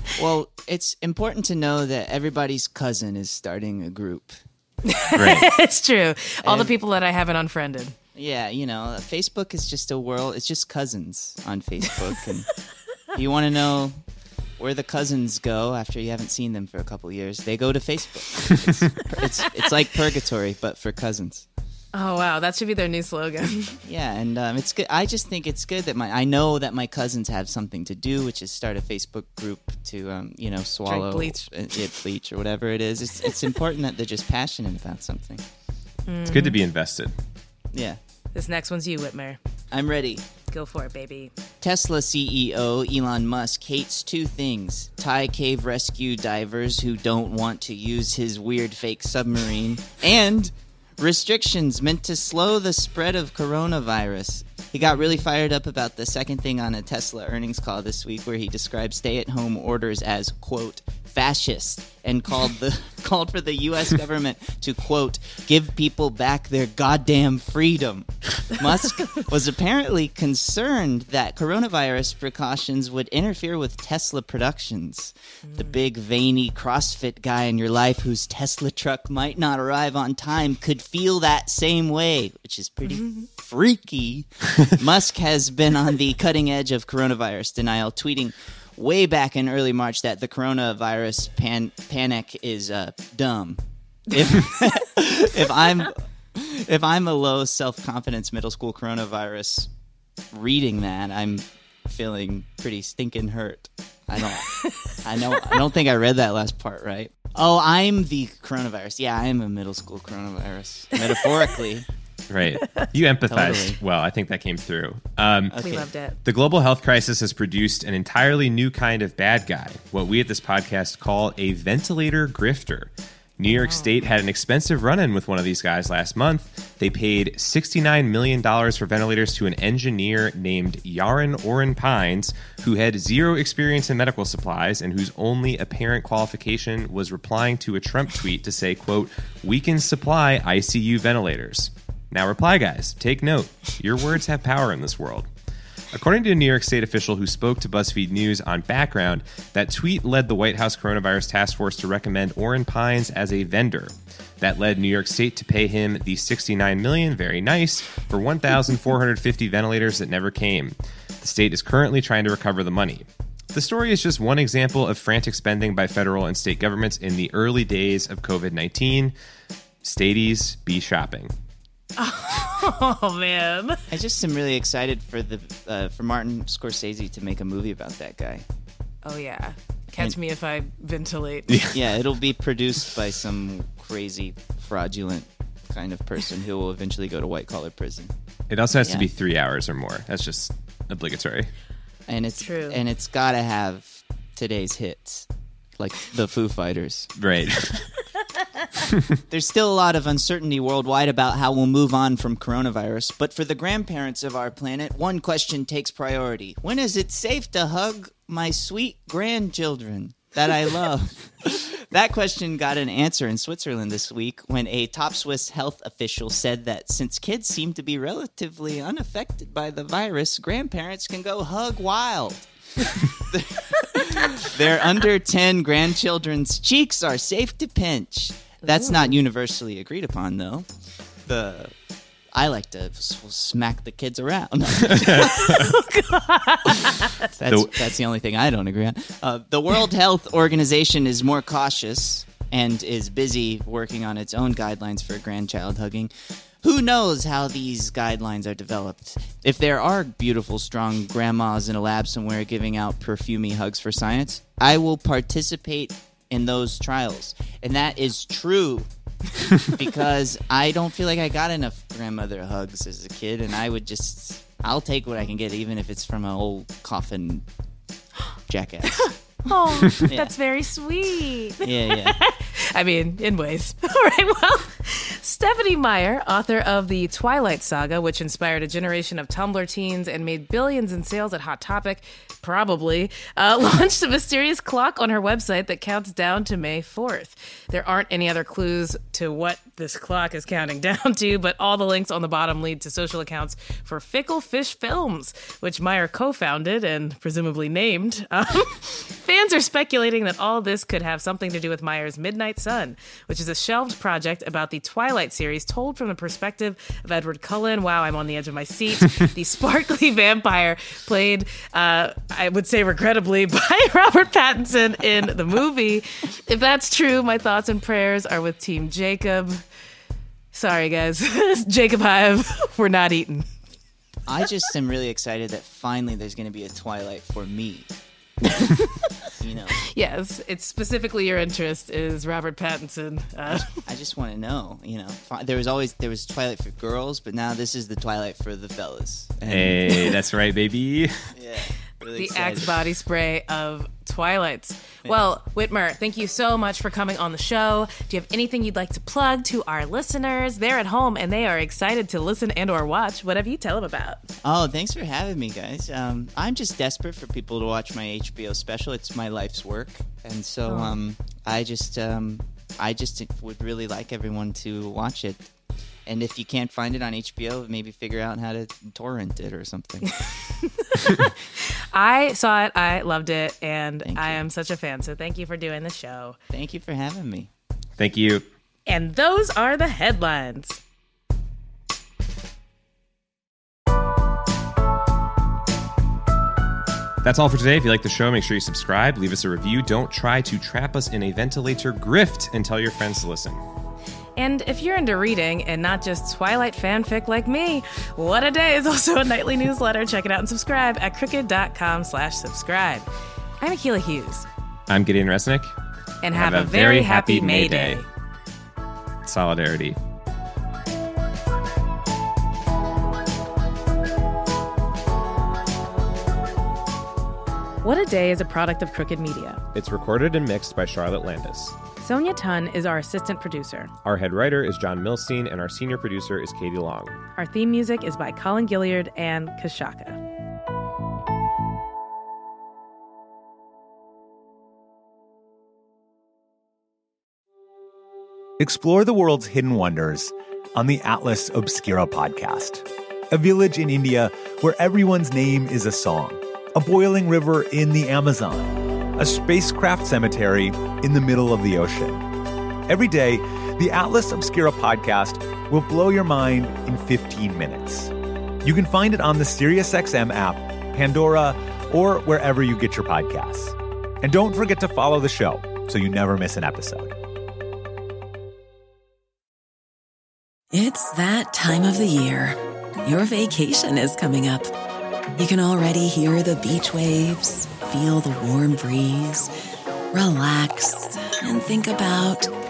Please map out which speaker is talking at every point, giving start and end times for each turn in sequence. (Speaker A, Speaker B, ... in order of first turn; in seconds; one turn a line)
Speaker A: 0.2-4.4
Speaker B: 4.9-7.9
Speaker C: 5.2-5.5
Speaker A: 6.4-6.7
Speaker A: 8.1-12.5
Speaker A: 13.1-14.0
Speaker A: 14.6-21.4
Speaker B: 21.9-23.8
Speaker A: 23.8-35.4
Speaker B: 30.9-31.4
Speaker B: 36.1-36.6
Speaker C: 36.2-37.1
Speaker A: 37.7-38.0
Speaker B: 38.3-39.4
Speaker A: 39.7-40.2
Speaker B: 40.5-41.3
Speaker A: 41.6-99.7
Speaker B: 75.5-75.7
Speaker B: 82.9-83.3
Speaker B: 94.1-94.5
Speaker A: 100.3-111.9
Speaker B: 104.3-104.9
Speaker C: 112.3-115.5
Speaker A: 113.3-113.8
Speaker A: 115.5-115.9
Speaker B: 115.6-116.2
Speaker C: 116.2-145.3
Speaker B: 123.5-123.9
Speaker C: 145.9-169.1
Speaker C: 169.8-171.3
Speaker B: 172.0-173.8
Speaker A: 173.9-178.4
Speaker B: 179.0-181.5
Speaker A: 181.7-188.1
Speaker C: 188.5-191.5
Speaker A: 192.1-195.3
Speaker B: 192.4-192.8
Speaker A: 195.8-197.1
Speaker C: 197.2-197.9
Speaker A: 199.3-230.7
Speaker B: 228.6-229.2
Speaker A: 231.3-231.7
Speaker A: 232.3-235.6
Speaker B: 235.2-237.3
Speaker A: 237.4-246.1
Speaker A: 246.6-258.9
Speaker A: 259.6-267.4
Speaker A: 268.5-269.2
Speaker B: 269.1-319.6
Speaker A: 270.0-270.3
Speaker A: 271.6-272.2
Speaker B: 320.5-323.5
Speaker A: 324.3-327.9
Speaker B: 328.6-328.9
Speaker A: 329.3-329.8
Speaker B: 329.8-333.7
Speaker A: 333.5-340.1
Speaker C: 339.5-341.3
Speaker A: 341.3-342.8
Speaker B: 342.1-354.2
Speaker A: 354.4-365.5
Speaker B: 360.7-361.0
Speaker A: 366.1-370.2
Speaker B: 370.3-376.4
Speaker A: 374.0-374.4
Speaker A: 376.5-377.5
Speaker C: 378.0-378.4
Speaker B: 378.9-380.8
Speaker C: 387.2-393.6
Speaker B: 394.4-403.1
Speaker B: 403.6-404.5
Speaker C: 404.9-405.7
Speaker B: 406.2-408.1
Speaker C: 406.3-408.0
Speaker C: 409.2-410.0
Speaker B: 417.8-419.6
Speaker C: 419.7-421.8
Speaker B: 422.0-423.9
Speaker C: 424.0-427.1
Speaker B: 427.4-430.2
Speaker D: 438.6-452.2
Speaker D: 452.9-458.1
Speaker D: 458.6-467.1
Speaker E: 470.7-474.7
Speaker E: 475.4-479.5
Speaker E: 480.1-482.5